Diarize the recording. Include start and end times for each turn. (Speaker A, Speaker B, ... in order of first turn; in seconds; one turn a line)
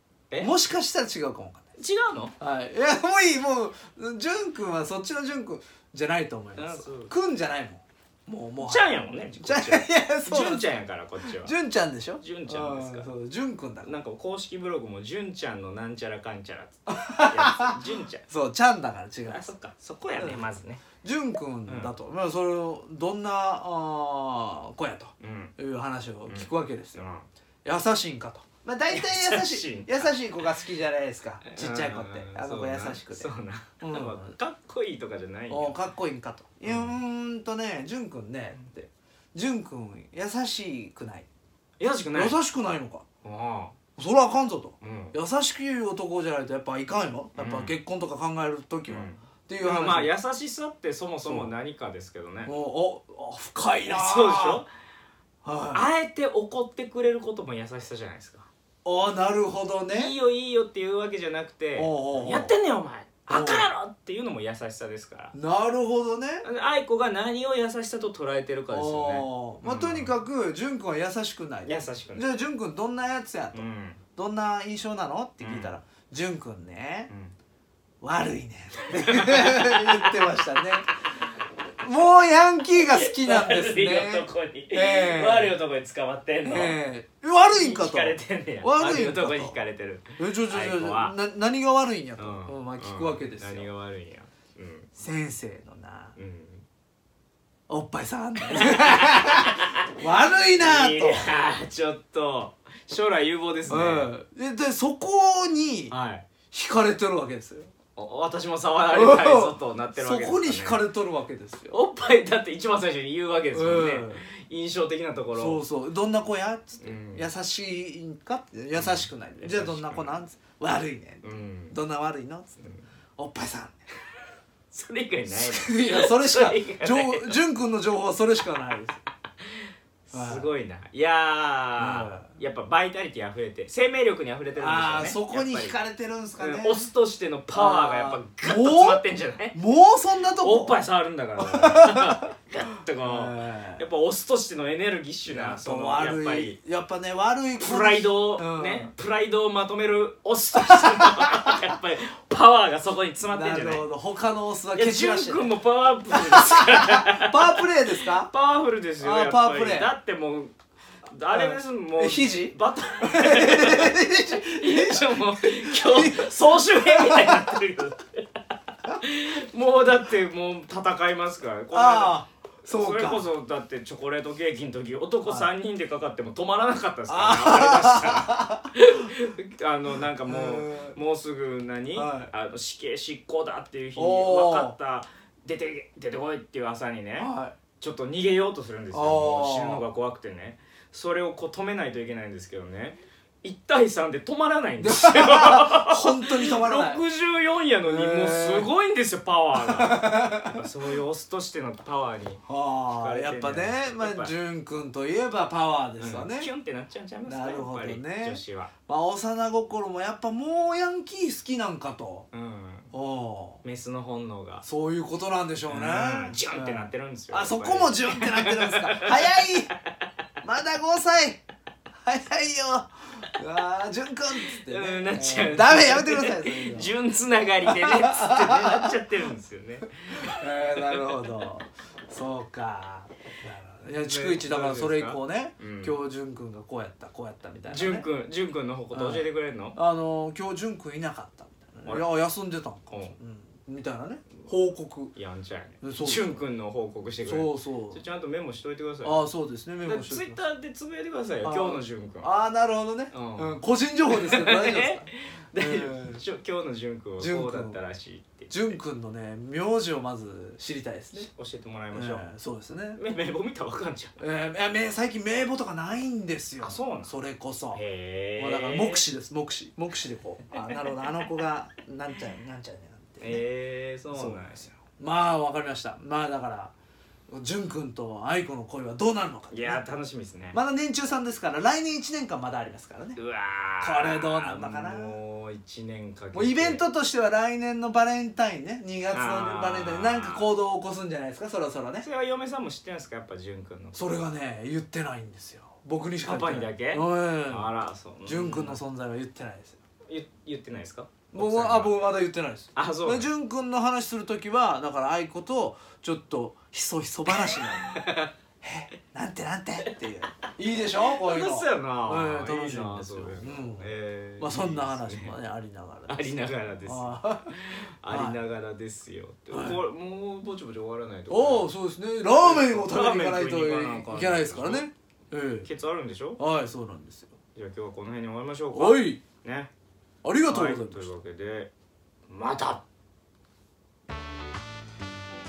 Speaker A: 0.4-1.7
Speaker B: 1.8-2.3
Speaker A: 2.4-10.7
Speaker B: 6.6-7.1
Speaker B: 8.6-11.5
Speaker A: 11.2-13.9
Speaker B: 12.2-13.1
Speaker B: 13.8-18.2
Speaker A: 16.9-17.8
Speaker A: 18.3-19.5
Speaker B: 19.2-20.8
Speaker A: 20.2-20.5
Speaker A: 21.0-27.1
Speaker B: 21.7-21.9
Speaker B: 25.2-25.5
Speaker B: 26.3-27.3
Speaker A: 27.6-34.4
Speaker B: 28.9-30.5
Speaker B: 31.4-35.8
Speaker A: 35.5-41.3
Speaker B: 36.7-37.0
Speaker B: 41.8-42.4
Speaker A: 42.1-43.0
Speaker B: 43.2-43.8
Speaker A: 44.0-50.1
Speaker B: 44.8-45.2
Speaker B: 47.4-47.8
Speaker B: 48.9-52.5
Speaker A: 51.2-51.5
Speaker A: 52.4-54.6
Speaker B: 53.9-54.7
Speaker A: 55.4-55.9
Speaker B: 55.7-58.5
Speaker A: 58.9-60.1
Speaker B: 59.9-65.3
Speaker A: 61.8-62.5
Speaker A: 63.3-63.7
Speaker A: 65.3-66.5
Speaker B: 66.4-70.2
Speaker A: 68.7-73.7
Speaker B: 71.7-72.3
Speaker B: 73.5-74.0
Speaker A: 74.2-77.1
Speaker B: 75.4-75.8
Speaker B: 77.1-77.3
Speaker A: 78.0-80.9
Speaker B: 79.0-80.1
Speaker A: 81.8-85.6
Speaker B: 82.9-86.8
Speaker A: 86.4-89.6
Speaker B: 87.5-91.2
Speaker A: 90.2-93.7
Speaker B: 92.2-94.9
Speaker A: 95.0-96.2
Speaker B: 96.2-96.7
Speaker A: 97.7-101.2
Speaker B: 98.5-99.9
Speaker B: 100.6-104.1
Speaker A: 103.7-105.9
Speaker B: 105.9-106.3
Speaker A: 106.5-107.7
Speaker B: 107.9-110.9
Speaker A: 108.9-111.8
Speaker B: 111.7-115.6
Speaker A: 113.5-114.2
Speaker A: 115.3-123.8
Speaker B: 116.8-117.3
Speaker B: 118.7-120.2
Speaker B: 121.2-121.8
Speaker B: 122.6-122.8
Speaker B: 124.7-127.4
Speaker A: 125.3-129.0
Speaker B: 129.4-135.8
Speaker A: 130.1-130.5
Speaker A: 131.8-132.3
Speaker A: 134.5-136.9
Speaker B: 136.4-139.6
Speaker A: 137.5-140.8
Speaker B: 140.3-146.6
Speaker A: 141.4-142.3
Speaker A: 143.0-143.8
Speaker A: 145.2-148.9
Speaker B: 147.6-153.9
Speaker A: 150.6-151.5
Speaker A: 153.3-155.5
Speaker B: 154.7-160.5
Speaker A: 156.1-158.3
Speaker A: 159.0-159.9
Speaker B: 161.1-168.2
Speaker A: 161.3-167.6
Speaker B: 168.9-204.3
Speaker A: 171.7-173.3
Speaker A: 175.2-175.5
Speaker A: 177.1-178.7
Speaker A: 180.2-181.0
Speaker A: 181.9-182.3
Speaker A: 184.0-184.8
Speaker A: 187.2-187.6
Speaker A: 188.9-189.9
Speaker A: 194.8-197.0
Speaker A: 197.8-198.7
Speaker A: 199.6-200.7
Speaker A: 202.5-206.5
Speaker B: 206.0-208.7
Speaker A: 207.2-212.3
Speaker B: 212.3-212.9
Speaker A: 212.9-213.6
Speaker B: 213.6-214.7
Speaker A: 214.6-219.7
Speaker B: 215.7-219.4
Speaker A: 220.4-221.4
Speaker A: 222.0-226.9
Speaker B: 224.5-230.3
Speaker A: 227.6-228.9
Speaker A: 230.2-238.1
Speaker B: 233.9-236.0
Speaker B: 237.7-239.8
Speaker A: 238.9-245.1
Speaker B: 242.9-243.2
Speaker B: 245.2-249.2
Speaker A: 245.8-246.4
Speaker A: 247.2-248.0
Speaker A: 249.0-250.4
Speaker B: 249.8-252.3
Speaker A: 251.4-256.2
Speaker B: 253.1-258.8
Speaker A: 257.2-257.8
Speaker A: 258.5-261.3
Speaker B: 261.1-262.3
Speaker A: 261.9-263.0
Speaker B: 262.9-264.2
Speaker A: 264.2-267.8
Speaker B: 266.6-267.1
Speaker B: 267.7-269.1
Speaker A: 268.4-273.4
Speaker B: 273.2-274.8
Speaker A: 274.1-276.7
Speaker A: 277.3-279.8
Speaker B: 279.5-280.6
Speaker A: 280.5-283.2
Speaker B: 283.2-286.8
Speaker A: 283.8-285.2
Speaker A: 286.3-292.1
Speaker B: 289.1-290.5
Speaker B: 292.0-294.0
Speaker A: 293.9-297.7
Speaker B: 296.2-298.8
Speaker A: 298.2-299.8
Speaker B: 300.1-302.1
Speaker A: 301.3-308.0
Speaker B: 302.8-303.3
Speaker B: 307.4-308.3
Speaker A: 308.6-318.4
Speaker B: 311.0-315.4
Speaker B: 316.1-321.7
Speaker A: 319.5-319.8
Speaker A: 321.3-325.7
Speaker B: 322.3-324.9
Speaker B: 325.6-326.4
Speaker A: 326.4-327.4
Speaker B: 327.6-329.7
Speaker A: 328.7-329.2
Speaker A: 330.2-331.1
Speaker B: 330.5-331.7
Speaker B: 332.3-332.8